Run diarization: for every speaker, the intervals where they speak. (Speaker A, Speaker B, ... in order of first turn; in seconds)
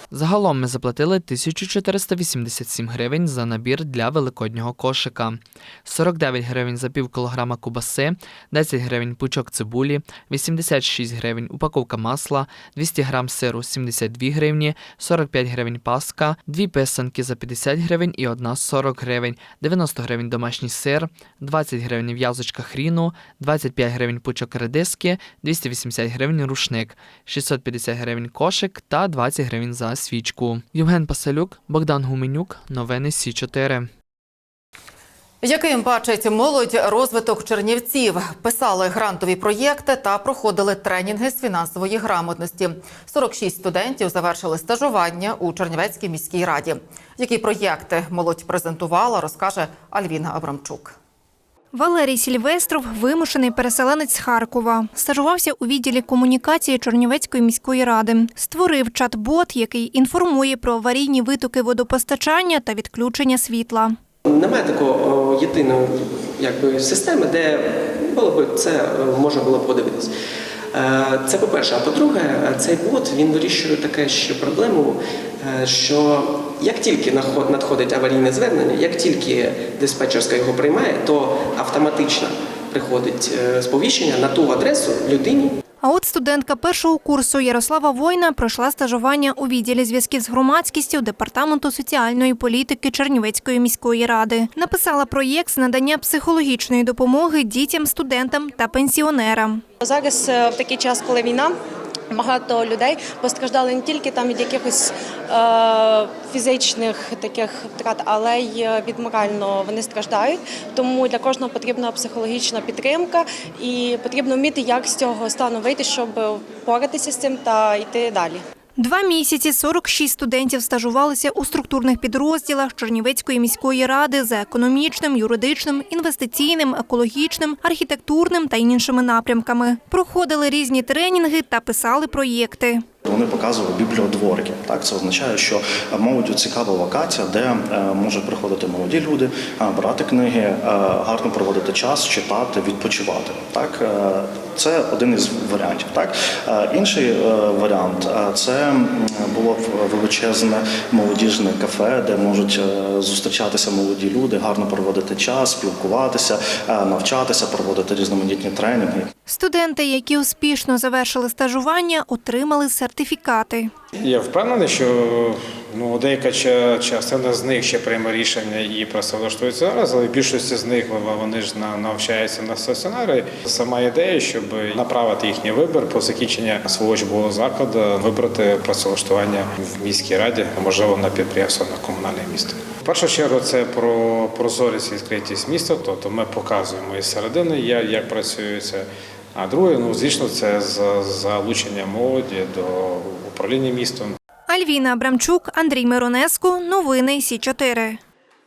Speaker A: 0.1-33.9
Speaker B: 35.4-50.9
Speaker C: 51.7-64.0, 85.8-99.6, 118.8-132.8, 159.3-163.7, 194.5-198.0
Speaker D: 64.2-70.1, 70.7-85.5
Speaker E: 99.8-101.5, 102.1-118.4
Speaker F: 133.1-159.1
Speaker G: 164.0-194.2